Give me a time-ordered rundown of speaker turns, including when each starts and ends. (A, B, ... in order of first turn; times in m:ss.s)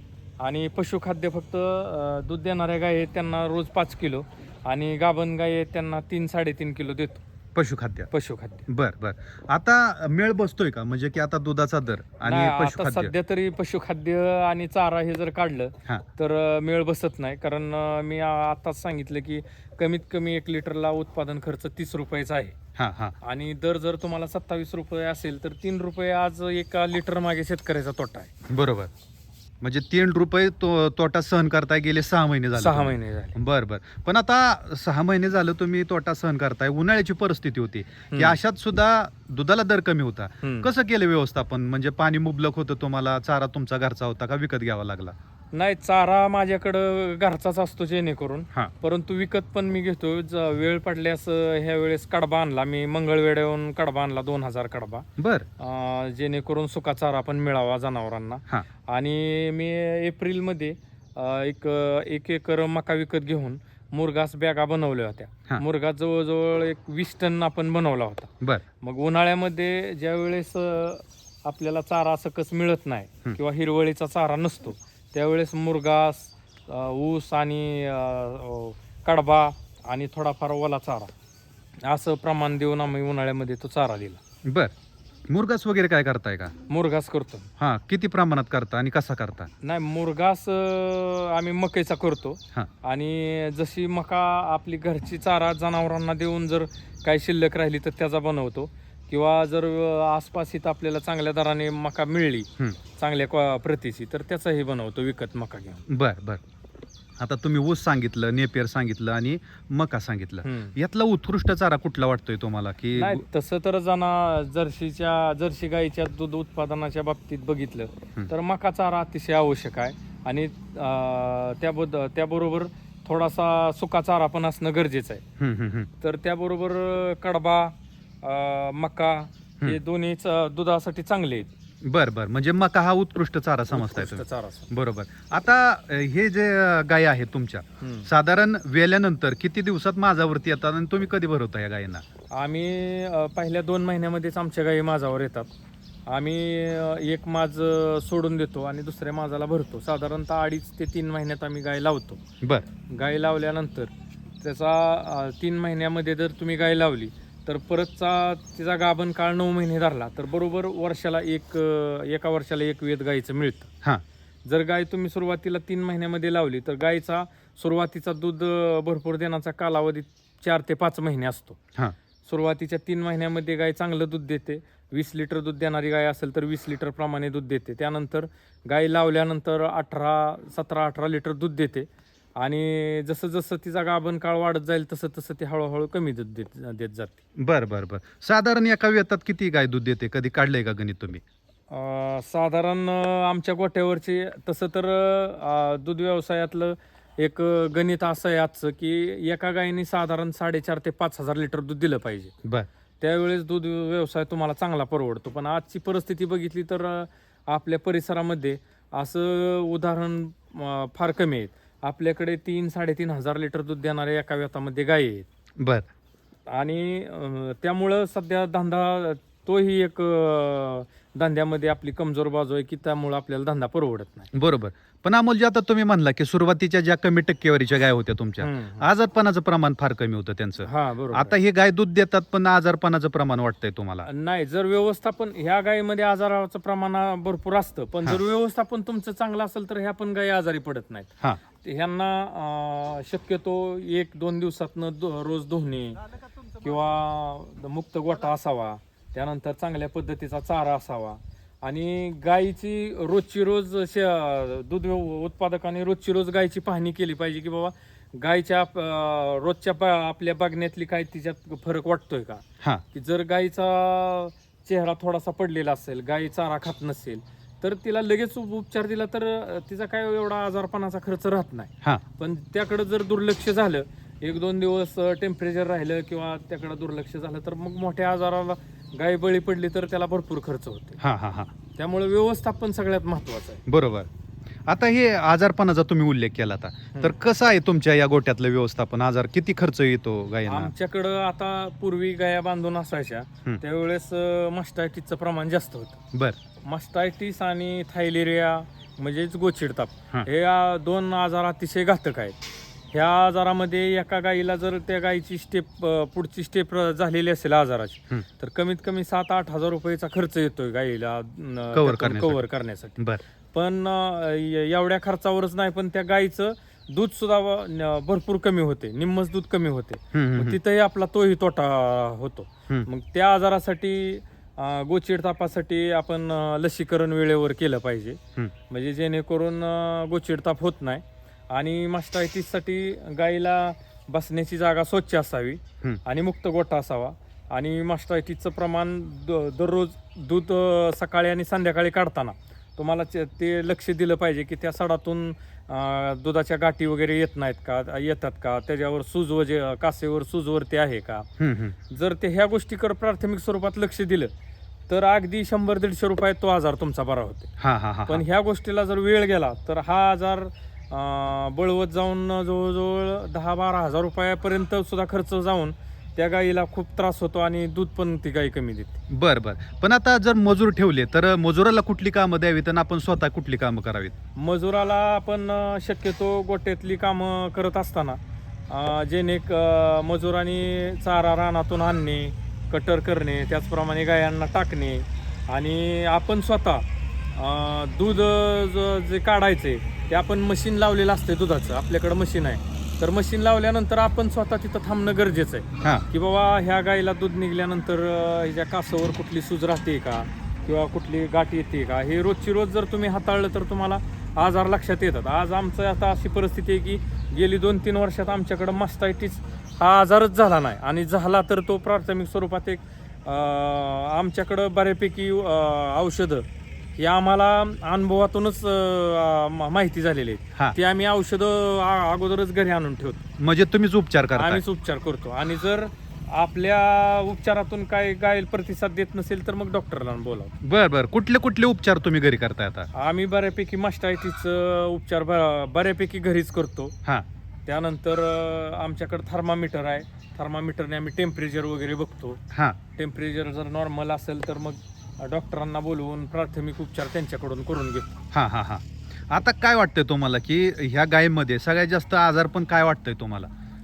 0:00.4-0:07.2 A
0:07.6-0:08.1 B
0:08.1-0:08.7 A
0:08.7-0:13.1 B
0:12.2-0:22.6 A
0:22.8-0:23.2 B
0:23.2-0:28.3 A
0:28.5-0:28.9 B
0:29.6-0:45.1 B
0:32.6-0:33.4 A
0:38.1-0:38.4 A
0:40.4-0:40.7 A
0:45.5-0:55.1 A
0:55.2-0:55.5 B
0:55.6-1:21.1 A
1:21.8-1:24.2 A
1:24.4-1:24.7 B
1:25.3-1:26.6 B
1:26.7-1:27.5 A
1:27.6-1:29.5 B
1:29.6-1:45.8 A
1:45.9-1:46.4 B
1:47.2-1:53.2 B
1:50.4-1:50.7 A
1:53.0-2:05.2 A
2:05.4-2:05.9 B
2:06.0-2:11.5 A
2:11.8-2:22.0 B
2:13.7-2:14.7 A
2:17.8-2:18.1 A
2:22.3-2:25.5 A
2:26.1-2:32.2 A
2:32.4-2:32.7 B
2:32.9-2:33.9 A
2:34.4-2:43.7 A
2:44.4-2:51.6 A
2:52.2-3:01.9 A
3:02.4-3:07.2 A
3:07.4-3:11.2 B
3:11.7-3:22.3 A
3:23.0-3:35.3 A
3:35.6-3:35.9 B
3:36.5-3:44.3 A
3:44.3-3:54.1 B
3:48.4-3:48.9 A
3:50.6-3:51.4 A
3:54.1-4:06.0 A
4:06.6-4:41.0 A
4:41.0-4:41.5 B
4:41.8-4:43.6 A
4:43.7-4:44.1 B
4:44.7-4:50.7 B
4:50.5-4:56.0 A
4:56.1-4:56.4 B
4:56.6-5:02.4 A
5:02.9-5:13.0 A
5:11.7-5:12.4 B
5:13.5-5:51.3 A
5:20.1-5:20.6 B
5:51.4-5:51.8 B
5:51.9-5:54.3 A
5:54.9-5:57.5 A
5:57.6-5:58.2 B
5:58.1-6:09.0 A
6:09.1-6:14.1 B
6:14.4-6:56.4 A
6:57.0-7:03.2 A
7:03.4-7:04.6 B
7:04.3-7:10.5 A
7:10.6-7:12.9 B
7:12.9-7:17.0 A
7:17.7-7:22.4 A
7:22.5-7:22.8 B
7:23.0-7:28.2 A
7:28.3-7:33.5 B